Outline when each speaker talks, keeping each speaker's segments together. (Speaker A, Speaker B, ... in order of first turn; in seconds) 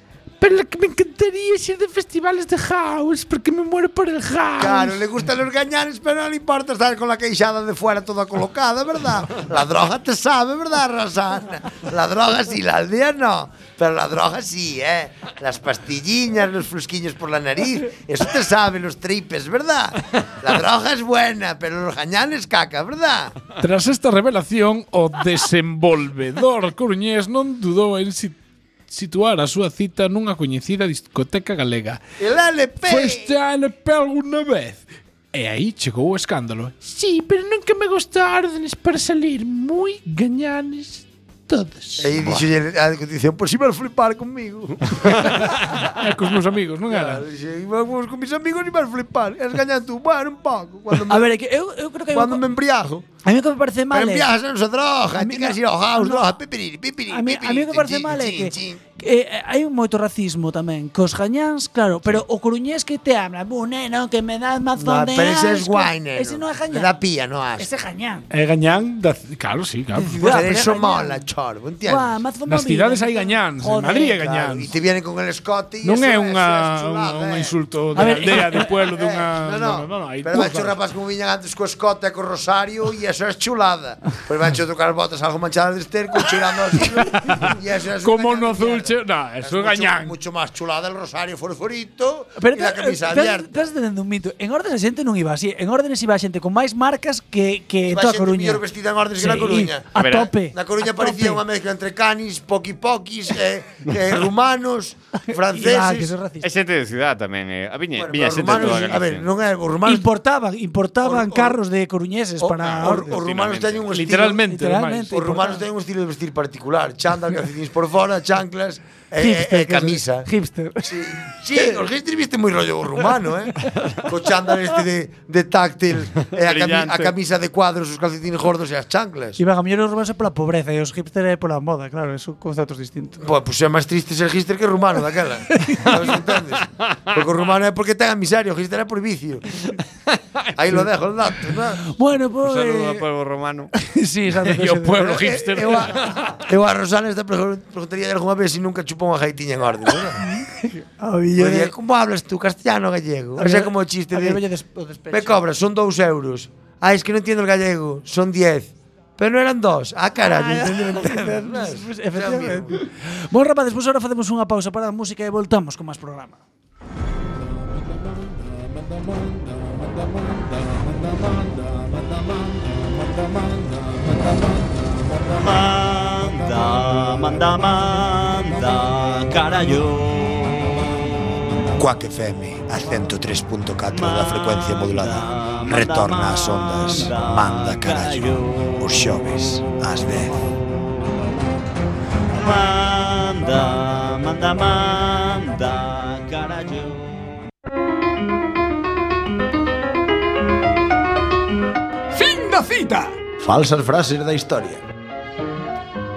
Speaker A: 0.4-5.0, 23.6-32.0, 32.9-42.2, 45.3-47.2, 68.3-70.2, 72.5-74.7, 75.8-80.7, 87.2-87.5, 88.0-90.2, 113.9-115.2, 144.4-146.0
Speaker B: 4.6-23.4, 32.2-33.3, 42.0-45.4, 46.9-51.3, 52.1-53.1, 53.9-58.8, 64.8-67.7, 70.0-72.2, 74.2-93.7, 97.9-106.2, 108.0-110.1, 111.0-111.6, 112.4-114.5, 115.1-120.3, 120.8-129.4, 133.2-139.7, 140.6-141.9, 145.0-150.2, 151.4-154.4, 155.1-162.8, 181.8-190.4, 203.4-204.8
Speaker C: 51.0-52.4, 53.2-54.3, 55.2-56.4, 57.1-67.0, 67.6-68.3, 70.1-71.2, 71.8-74.2, 78.0-78.7, 92.4-98.6, 99.2-101.4, 105.3-106.5, 108.5-108.9, 109.8-113.2, 114.4-115.6, 119.2-120.9, 129.4-133.2, 135.6-135.9, 141.8-143.1, 143.7-145.2, 150.2-151.7, 153.4-155.4, 160.2-166.4, 202.1-203.2
Speaker D: 100.0-100.3, 106.4-109.3, 112.7-113.9, 126.2-127.2, 136.6-137.2, 142.4-143.7
Speaker E: 175.3-181.5, 183.9-188.8, 192.3-197.3